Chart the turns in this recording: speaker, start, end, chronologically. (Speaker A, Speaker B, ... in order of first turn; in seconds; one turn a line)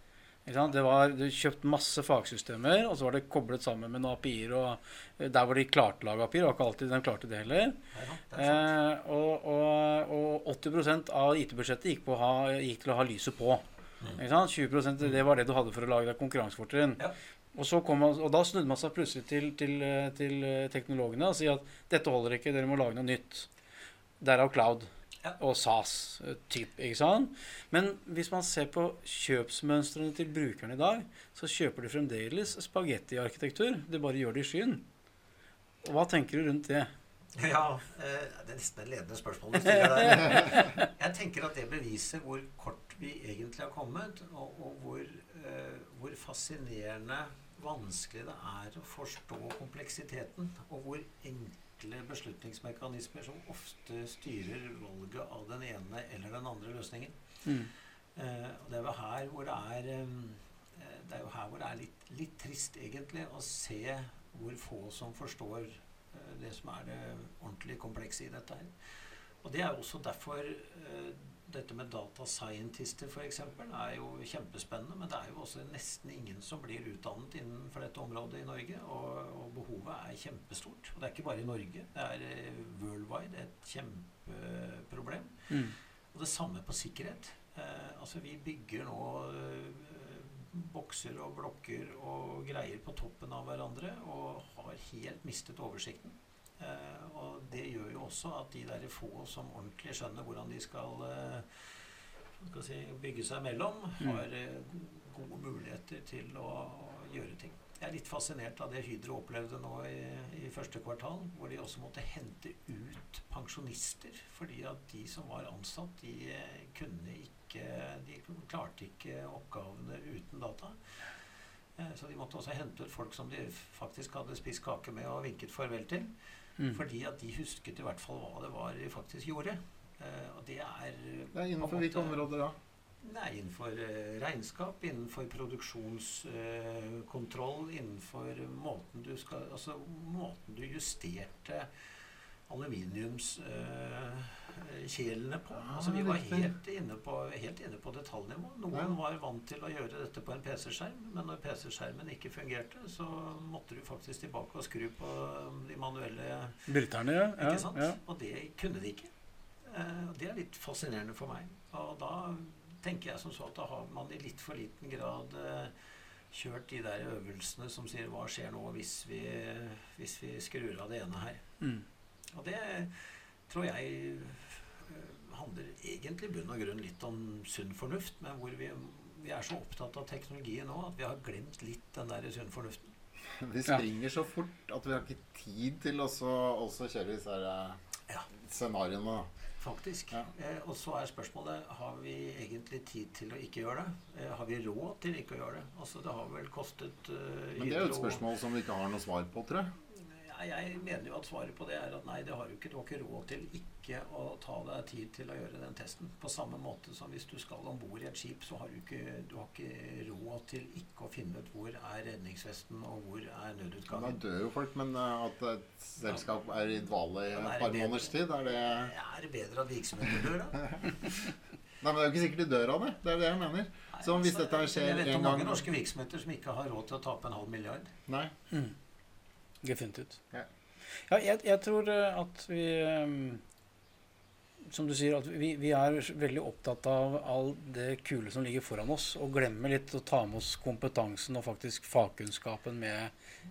Speaker A: 0.5-7.8
Speaker B: 7.9-8.7
Speaker A: 8.4-13.6
Speaker A: 14.2-17.0
Speaker A: 17.6-23.5
Speaker A: 24.2-34.9
Speaker A: 35.8-36.9
Speaker B: 37.4-57.5
Speaker A: 39.8-40.9
Speaker A: 57.5-57.7
Speaker B: 58.1-68.7
Speaker B: 69.4-101.9
Speaker A: 85.5-85.8
Speaker B: 102.4-121.0
Speaker B: 121.8-126.1
Speaker B: 126.7-132.2
Speaker C: 131.3-132.6
Speaker B: 133.0-141.7
Speaker B: 142.5-156.7
Speaker C: 145.5-146.5
Speaker A: 156.7-158.0
Speaker B: 157.4-159.1
Speaker B: 159.6-165.7
Speaker B: 166.3-171.4
Speaker A: 171.6-171.9
Speaker B: 172.3-182.9
Speaker C: 183.2-187.8
Speaker C: 188.3-189.3
Speaker B: 189.6-198.2
Speaker C: 197.6-199.7
Speaker B: 200.0-214.2
Speaker C: 213.9-218.9
Speaker B: 217.3-220.9
Speaker C: 221.8-225.7
Speaker B: 223.9-227.9
Speaker C: 228.1-228.3
Speaker A: 229.6-230.2
Speaker A: 231.1-233.4
Speaker A: 234.7-243.1